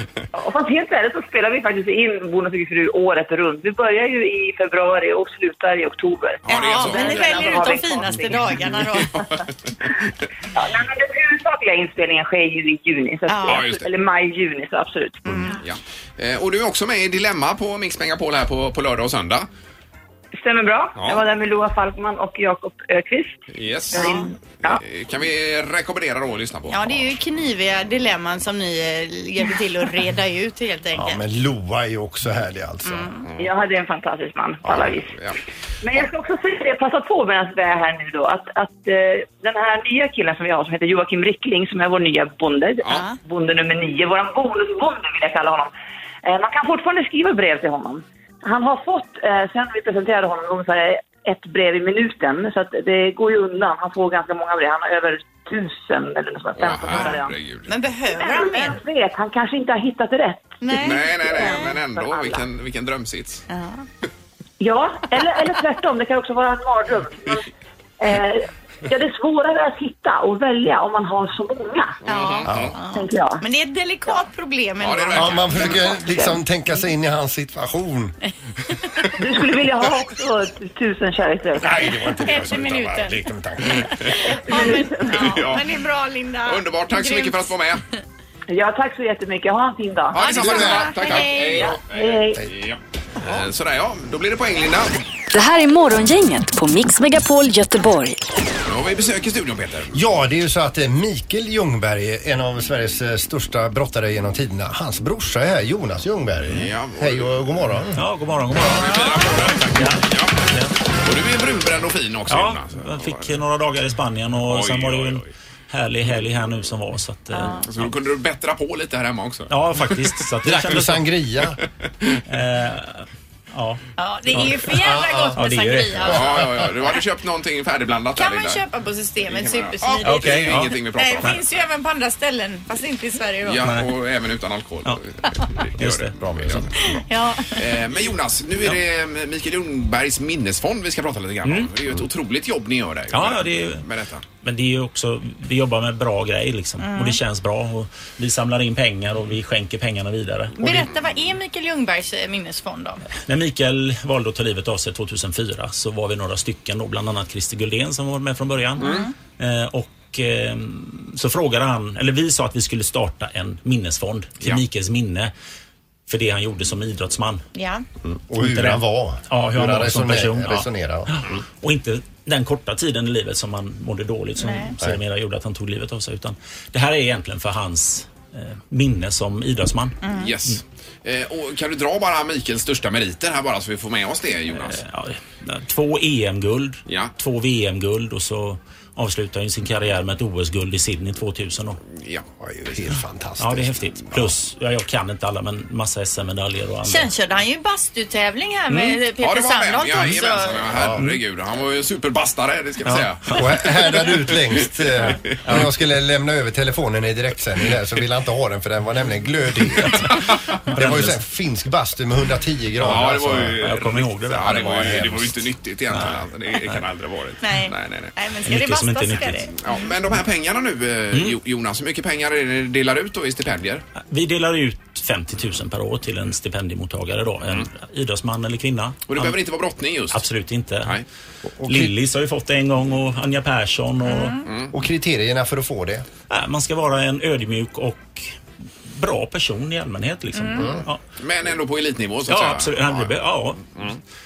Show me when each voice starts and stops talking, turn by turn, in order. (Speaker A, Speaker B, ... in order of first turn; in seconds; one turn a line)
Speaker A: 0.3-8.4
Speaker B: 6.5-7.7
Speaker C: 6.5-9.2
Speaker B: 8.2-9.4
Speaker A: 10.5-15.3
Speaker C: 13.3-13.6
Speaker B: 13.4-13.9
Speaker B: 15.5-19.5
Speaker A: 20.4-23.4
Speaker B: 21.0-21.2
Speaker B: 23.5-27.0
Speaker A: 23.9-24.8
Speaker C: 23.9-24.3
Speaker C: 26.7-31.2
Speaker D: 30.9-33.2
Speaker C: 32.9-33.2
Speaker A: 33.4-35.1
Speaker D: 34.7-34.9
Speaker B: 34.9-35.4
Speaker A: 35.8-45.7
Speaker C: 42.9-43.2
Speaker A: 46.2-57.4
Speaker B: 56.6-57.7
Speaker C: 56.9-58.8
Speaker A: 58.1-60.6
Speaker C: 60.6-61.8
Speaker B: 60.8-63.5
Speaker A: 61.1-62.5
Speaker C: 63.5-63.9
Speaker A: 64.6-67.4
Speaker A: 68.0-72.0
Speaker B: 72.0-72.8
Speaker C: 72.1-75.8
Speaker D: 72.5-72.8
Speaker A: 72.9-73.4
Speaker B: 74.8-76.0
Speaker D: 75.1-78.2
Speaker A: 79.2-81.7
Speaker D: 81.6-84.0
Speaker C: 82.0-87.5
Speaker A: 84.2-85.3
Speaker B: 85.0-85.7
Speaker B: 86.5-87.8
Speaker A: 88.5-90.3
Speaker B: 90.1-94.9
Speaker C: 90.2-91.8
Speaker D: 90.4-90.9
Speaker A: 91.0-92.4
Speaker E: 95.3-98.2
Speaker B: 98.7-100.0
Speaker D: 99.9-108.0
Speaker B: 106.5-107.6
Speaker F: 108.0-110.8
Speaker B: 108.6-110.4
Speaker B: 111.0-113.4
Speaker F: 112.3-117.6
Speaker B: 114.5-115.3
Speaker C: 117.4-117.7
Speaker B: 117.6-120.0
Speaker F: 119.5-121.0
Speaker D: 120.5-121.6
Speaker B: 121.6-122.2
Speaker F: 122.3-124.6
Speaker C: 124.0-126.6
Speaker D: 124.8-125.4
Speaker F: 125.3-126.2
Speaker B: 126.0-128.6
Speaker C: 128.2-133.7
Speaker B: 129.2-131.4
Speaker F: 130.1-131.3
Speaker B: 133.4-137.0
Speaker F: 133.6-133.9
Speaker F: 135.8-136.1
Speaker D: 136.2-136.8
Speaker C: 137.0-137.6
Speaker B: 137.6-144.2
Speaker F: 141.4-141.7
Speaker F: 143.1-143.8
Speaker F: 144.4-150.7
Speaker C: 146.8-147.2
Speaker C: 150.6-153.0
Speaker F: 153.2-165.3
Speaker B: 158.8-159.1
Speaker C: 158.8-159.1
Speaker F: 166.1-167.4
Speaker C: 167.6-167.8
Speaker D: 168.0-171.1
Speaker F: 168.4-180.0
Speaker C: 174.4-174.8
Speaker C: 180.0-180.3
Speaker B: 180.1-184.8
Speaker F: 184.5-191.8
Speaker B: 186.9-187.1
Speaker B: 192.0-192.2
Speaker D: 192.4-194.3
Speaker F: 193.4-197.1
Speaker C: 196.9-200.7
Speaker F: 198.7-199.0
Speaker B: 199.2-203.6
Speaker D: 200.7-201.0
Speaker F: 202.9-203.5
Speaker D: 203.3-210.2
Speaker B: 204.3-205.4
Speaker F: 210.7-211.2
Speaker D: 210.8-213.6
Speaker F: 212.8-215.2
Speaker B: 212.8-218.1
Speaker D: 214.5-215.3
Speaker F: 215.9-216.8
Speaker C: 217.4-219.5
Speaker F: 218.5-219.5
Speaker B: 219.6-223.8
Speaker F: 221.1-221.4
Speaker F: 224.0-229.4
Speaker B: 229.1-230.2
Speaker F: 230.1-231.0
Speaker D: 231.5-231.9
Speaker F: 231.7-234.4
Speaker C: 234.1-234.4
Speaker B: 234.4-234.7
Speaker D: 234.7-236.1
Speaker F: 236.3-238.2
Speaker F: 238.9-241.0
Speaker C: 240.4-240.7
Speaker D: 240.6-240.9
Speaker B: 241.2-243.2
Speaker F: 242.3-243.7